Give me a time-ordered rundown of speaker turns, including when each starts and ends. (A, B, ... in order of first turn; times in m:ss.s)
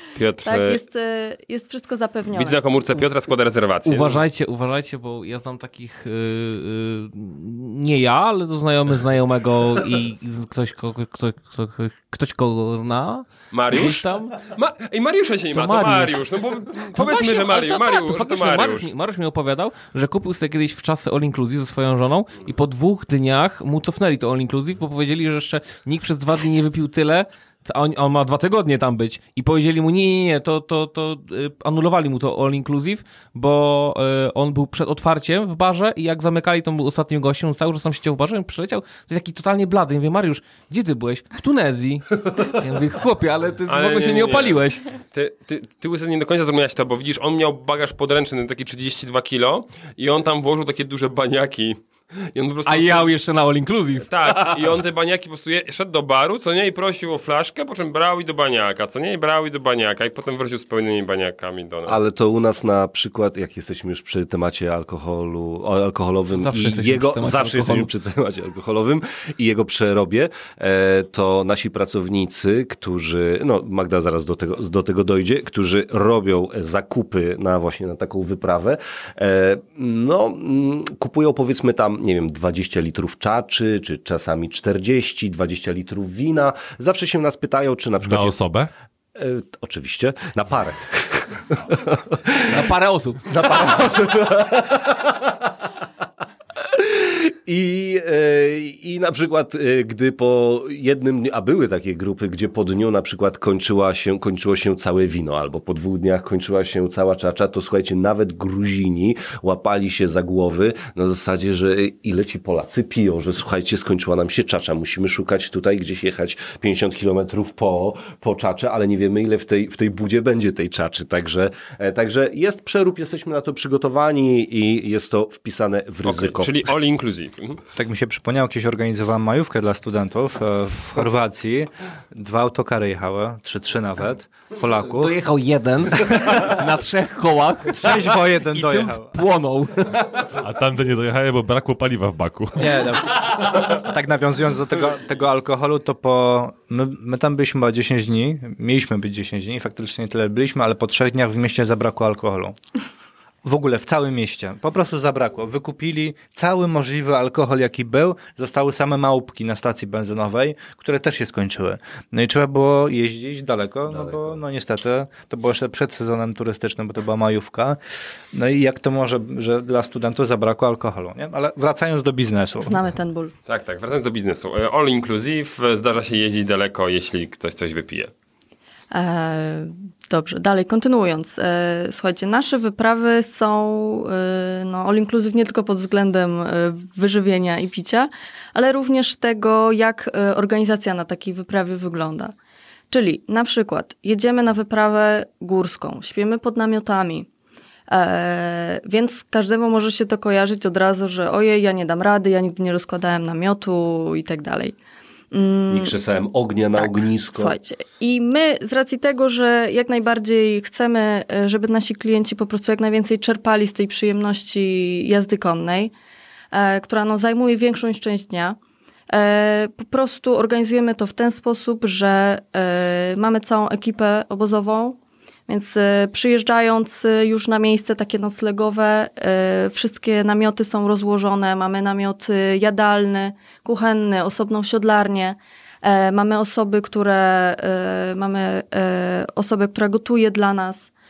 0:00.2-0:00.8 A
0:00.4-0:03.0 B
0:02.3-0:04.2 A
0:03.8-0:14.4 C
0:13.5-0:18.9 A
0:15.5-0:16.2 C
0:16.9-0:44.9 C
0:43.7-0:53.2 A
0:52.7-0:54.8 C
0:54.1-1:02.0 A
1:01.9-1:28.4 D
1:06.3-1:07.9 C
1:28.0-1:28.7 E
1:29.2-1:32.6 D
1:32.5-1:33.6 C
1:33.3-1:35.4 D
1:36.6-2:06.6 D
2:06.0-2:07.6 A
2:07.8-2:15.2 F
2:14.9-2:20.3 C
2:17.8-2:19.1 F
2:20.4-2:22.8 E
2:22.6-2:32.6 F
2:33.4-2:47.8 F
2:48.3-2:52.8 F
2:52.6-2:53.3 B
2:53.5-2:58.1 A
2:58.9-3:12.3 B
3:12.9-3:17.3 B
3:17.9-3:24.8 B
3:25.3-3:25.9 B
3:25.7-3:27.6 D
3:26.8-3:35.9 B
3:36.5-3:38.6 B
3:39.1-3:45.0 B
3:45.5-4:00.9 B